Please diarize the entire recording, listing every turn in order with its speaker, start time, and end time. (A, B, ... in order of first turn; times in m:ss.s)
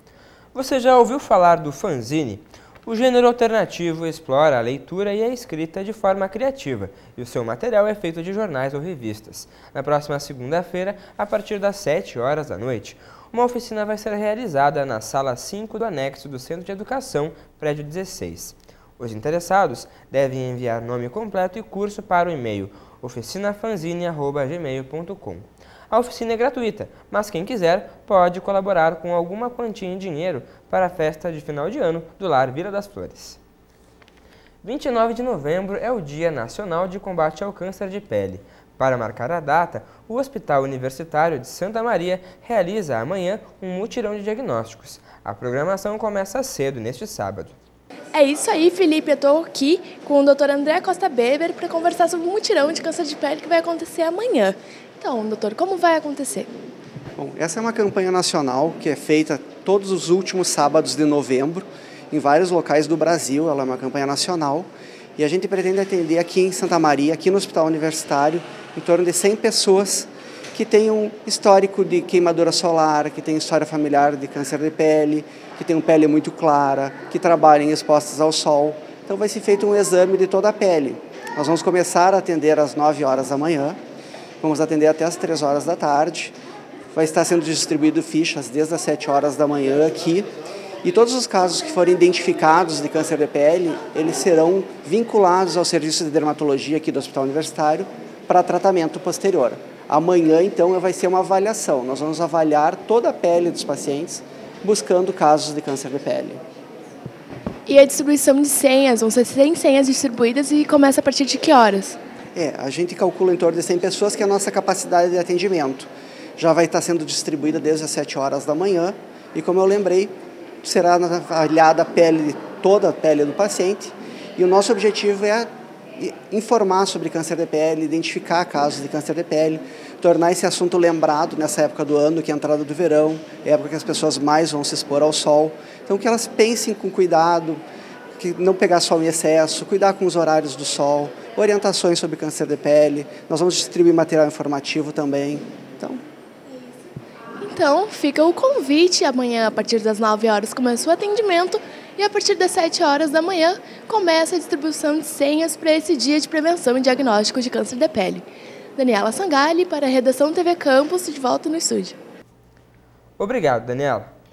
0:00.5-0:33.4 A
0:34.6-0:47.6 A
0:48.1-0:56.5 B
0:57.2-1:23.8 C
1:24.4-1:26.3 C
1:26.9-1:30.3 C
1:30.8-1:46.4 C
1:47.6-1:52.0 B
1:52.3-2:17.6 C
2:18.2-2:26.0 C
2:27.4-2:38.2 B
2:38.8-2:42.0 B
2:43.2-2:44.1 A